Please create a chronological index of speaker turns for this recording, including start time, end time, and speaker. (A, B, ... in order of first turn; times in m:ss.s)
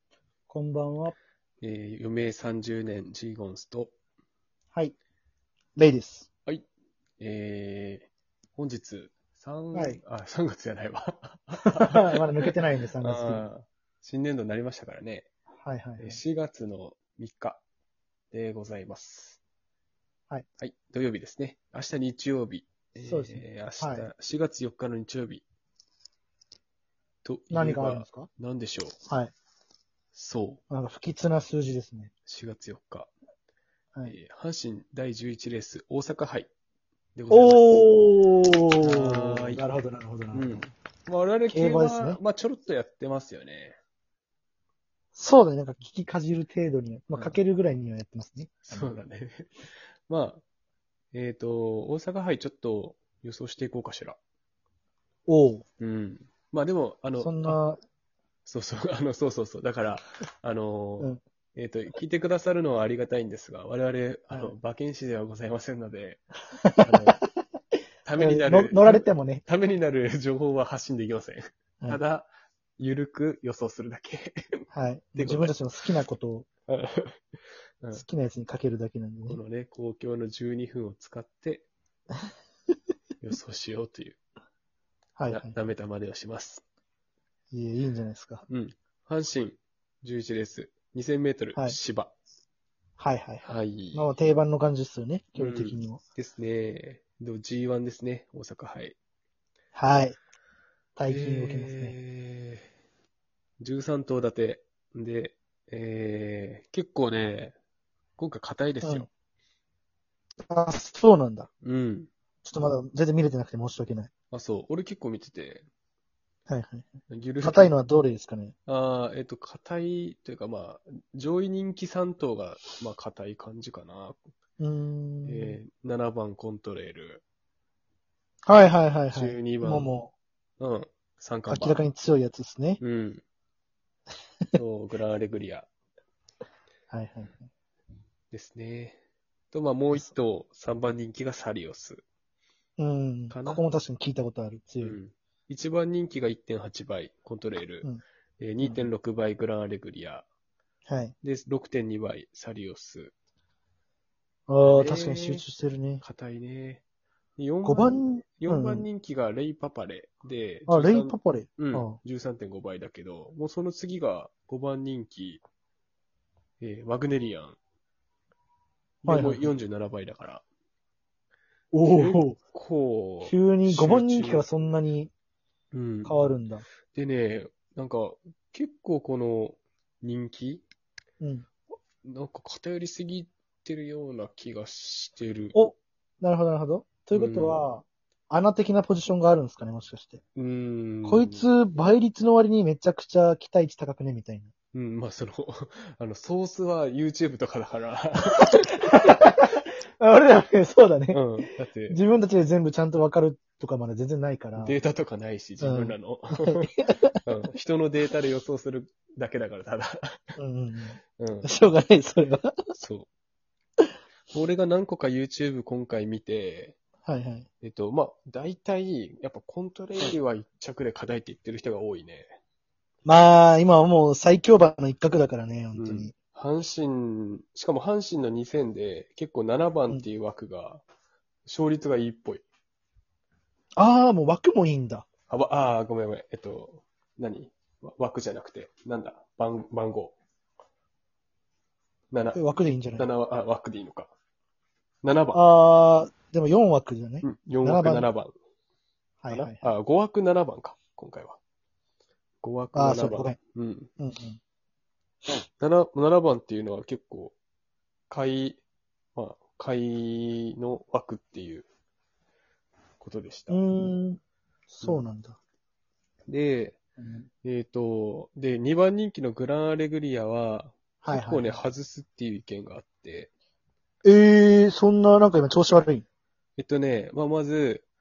0:00.5-0:01.2 A
0:01.6-0:03.9 B
0:05.8-0:06.3 A
0:07.2-0:15.3 B
0:09.7-0:10.0 A
0:11.6-0:13.5 A
0:15.6-0:16.2 A
0:16.0-0:17.6 B
0:18.3-0:19.4 B
0:20.6-0:25.4 B
0:23.1-0:24.1 A
0:27.2-0:29.0 B
0:27.5-0:28.3 A
0:29.1-0:29.3 A
0:30.1-0:30.6 B
0:30.7-0:32.1 A
0:32.3-0:33.1 B
0:34.1-0:36.5 B
0:37.2-0:37.7 B
0:37.3-0:40.6 A
0:38.8-0:39.6 B
0:40.3-0:43.8 B
0:41.5-0:42.2 A
0:45.2-0:48.9 A
0:47.1-0:47.4 B
0:48.7-0:49.5 B
0:50.1-0:50.4 B
0:51.1-0:54.2 B
0:55.3-0:55.6 A
0:55.8-0:57.6 B
0:57.2-0:57.8 A
0:58.4-1:06.2 B
1:06.6-1:07.2 A
1:06.8-1:07.2 B
1:08.0-1:14.7 B
1:08.2-1:09.4 A
1:14.7-1:16.5 A
1:15.2-1:15.6 B
1:16.7-1:17.2 B
1:17.9-1:19.4 A
1:19.3-1:21.7 B
1:23.2-1:24.2 B
1:25.2-1:25.6 A
1:25.3-1:26.6 B
1:27.5-1:28.4 A
1:28.5-1:32.1 B
1:33.0-1:36.0 A
1:33.4-1:34.1 B
1:35.4-1:39.0 B
1:39.8-1:40.2 A
1:41.0-1:42.0 A
1:41.1-1:42.7 B
1:43.6-1:47.6 B
1:48.2-1:49.1 B
1:50.5-1:51.5 A
1:51.6-1:52.1 B
1:52.4-1:54.1 A
1:54.3-1:55.7 B
1:56.5-1:58.6 A
1:57.1-1:57.8 B
1:58.7-2:04.3 B
2:04.6-2:05.6 A
2:05.2-2:07.2 B
2:08.5-2:10.1 A
2:09.1-2:09.9 B
2:10.6-2:11.8 B
2:11.5-2:12.8 A
2:12.8-2:13.2 B
2:14.5-2:15.7 B
2:16.9-2:17.5 A
2:18.3-2:19.0 B
2:19.5-2:22.0 B
2:22.8-2:25.0 A
2:23.3-2:23.6 B
2:24.8-2:27.9 B
2:28.4-2:30.3 B
2:28.6-2:28.9 A
2:30.9-2:31.2 A
2:31.2-2:33.1 B
2:34.5-2:36.0 A
2:34.6-2:35.4 B
2:36.0-2:36.8 B
2:37.4-2:45.4 B
2:37.6-2:38.9 A
2:40.7-2:42.0 A
2:46.6-2:47.6 B
2:49.0-2:50.4 B
2:49.0-2:49.5 A
2:51.7-2:52.4 A
2:51.8-2:54.5 B
2:53.3-2:55.1 A
2:55.7-2:56.2 B
2:56.0-2:56.7 A
2:56.9-3:00.6 B
3:01.2-3:01.5 A
3:02.0-3:05.6 B
3:05.5-3:10.2 A
3:07.1-3:07.6 B
3:10.4-3:11.5 B
3:11.0-3:14.5 A
3:14.7-3:18.9 B
3:18.4-3:24.8 A
3:21.1-3:22.0 B
3:24.6-3:26.7 B
3:25.6-3:27.2 A
3:27.2-3:30.4 B
3:30.4-3:32.6 A
3:31.2-3:31.7 B
3:32.8-3:33.1 B
3:34.3-3:36.8 B
3:37.0-3:37.5 A
3:37.6-3:42.3 B
3:43.1-3:46.1 A
3:45.8-3:50.8 B
3:51.5-3:52.4 B
3:53.8-3:55.0 A
3:55.3-4:00.2 B
4:02.1-4:02.4 B
4:02.4-4:03.1 A
4:03.0-4:04.1 B
4:05.0-4:05.4 B
4:05.3-4:08.1 A
4:07.2-4:08.4 B
4:09.2-4:09.7 A
4:09.3-4:11.4 B
4:12.4-4:13.9 B
4:12.7-4:13.4 A
4:14.0-4:14.4 A
4:15.3-4:17.4 B
4:18.1-4:18.6 B
4:19.2-4:21.7 B
4:23.0-4:23.6 B
4:23.5-4:25.4 A
4:26.3-4:26.8 B
4:27.0-4:27.3 A
4:27.4-4:33.3 B
4:31.0-4:31.6 A
4:34.0-4:36.0 A
4:36.6-4:37.8 B